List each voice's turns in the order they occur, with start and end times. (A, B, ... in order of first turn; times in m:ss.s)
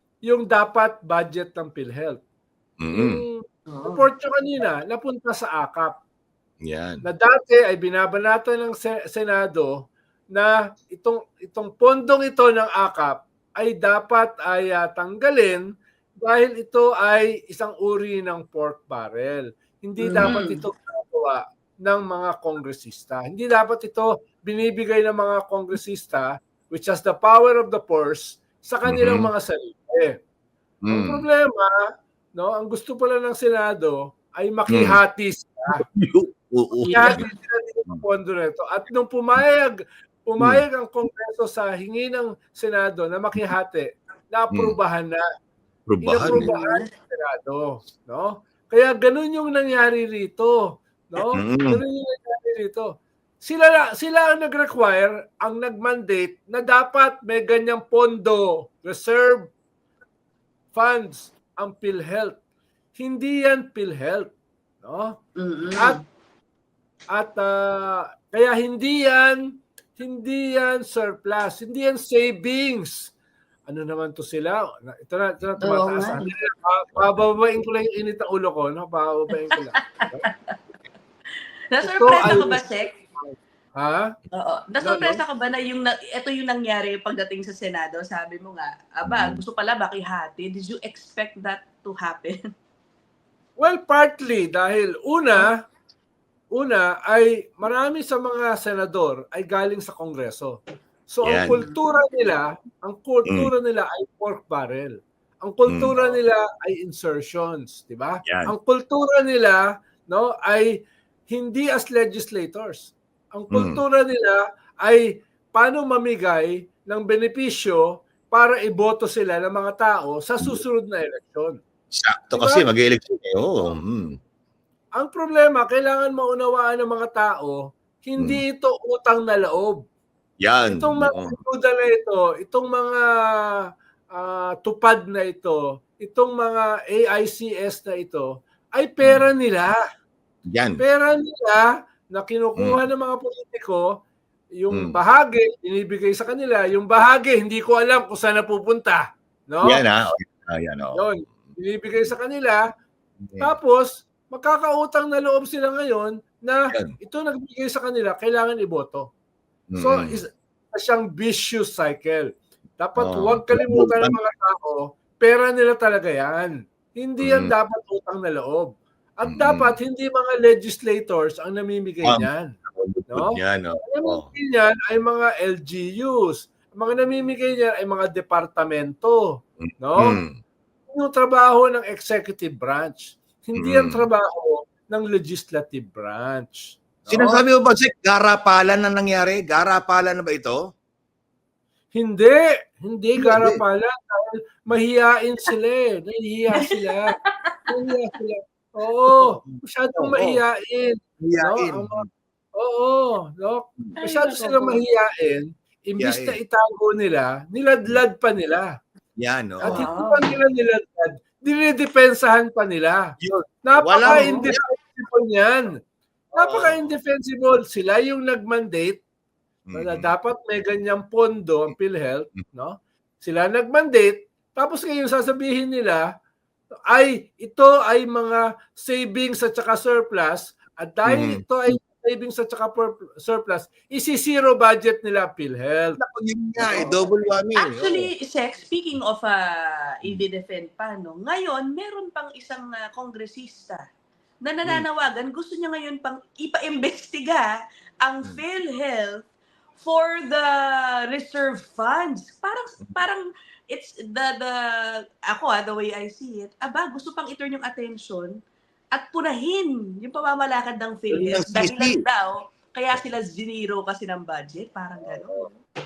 0:00.3-0:02.2 A
0:02.8-0:03.2 B
0:02.9-0:06.0 A
0:03.7-0:04.1 C
0:06.6-0:07.0 B
0:07.0-0:09.7 A
0:10.3-0:15.6 A
0:16.2-0:30.2 A
0:20.0-0:20.6 C
0:28.9-0:29.3 B
0:30.9-0:31.2 B
0:30.9-0:31.8 A
0:32.4-0:35.8 A
0:34.7-0:35.0 B
0:35.8-0:37.2 B
0:36.9-0:39.7 A
0:36.9-0:37.2 C
0:40.3-0:45.2 A
0:40.4-0:40.6 B
0:45.9-0:46.5 B
0:46.0-0:59.5 A
0:46.2-0:46.9 C
0:51.2-0:51.8 B
1:00.7-1:02.4 A
1:03.0-1:04.3 A
1:04.8-1:05.2 A
1:05.4-1:06.0 C
1:07.1-1:09.4 A
1:10.0-1:13.1 A
1:13.7-1:20.2 A
1:15.6-1:16.3 C
1:19.5-1:20.6 C
1:21.7-1:22.9 C
1:21.8-1:22.6 A
1:23.2-1:24.1 A
1:24.3-1:32.4 C
1:24.8-1:25.2 A
1:29.0-1:29.4 B
1:33.6-1:35.6 A
1:36.5-2:01.6 A
1:41.2-1:41.6 B
1:45.7-1:45.9 B
1:48.3-1:48.5 B
1:53.5-1:53.8 B
2:01.9-2:04.2 B
2:02.3-2:02.7 A
2:05.0-2:09.8 A
2:10.4-2:11.4 B
2:10.7-2:13.6 A
2:14.2-2:19.8 A
2:19.0-2:19.3 B
2:20.5-2:20.8 B
2:20.8-2:23.9 A
2:24.6-2:29.8 A
2:24.7-2:25.0 B
2:29.6-2:32.1 B
2:31.0-2:32.6 A
2:33.2-2:33.5 B
2:33.4-2:39.1 A
2:39.7-2:40.2 B
2:39.8-2:52.6 A
2:43.0-2:44.2 B
2:47.2-2:47.5 B
2:49.2-2:49.8 B
2:52.0-2:54.3 B
2:53.1-2:59.2 A
2:59.6-3:00.4 B
2:59.8-3:00.2 A
3:00.9-3:07.4 A
3:03.6-3:04.1 B
3:07.1-3:10.6 B
3:12.0-3:17.1 A
3:13.2-3:13.6 B
3:16.6-3:17.7 C
3:17.7-3:22.0 A
3:19.3-3:20.4 B
3:21.2-3:22.1 B
3:22.6-3:28.7 A
3:24.0-3:24.8 C
3:26.0-3:26.4 B
3:29.2-3:29.8 B
3:29.6-3:33.1 A
3:29.6-3:30.4 C
3:33.2-3:34.6 B
3:33.6-3:35.8 A
3:34.0-3:34.5 C
3:36.3-3:36.9 B
3:36.3-3:39.0 A
3:39.7-3:40.1 B
3:39.7-3:46.0 A
3:46.9-3:56.0 A
3:51.1-3:51.4 B
3:56.0-3:58.1 B
3:56.6-4:03.8 C
4:04.4-4:07.5 C
4:08.0-4:09.3 C
4:09.8-4:14.6 C
4:15.3-4:18.4 C
4:19.0-4:25.6 C
4:21.1-4:22.0 B
4:25.1-4:25.4 B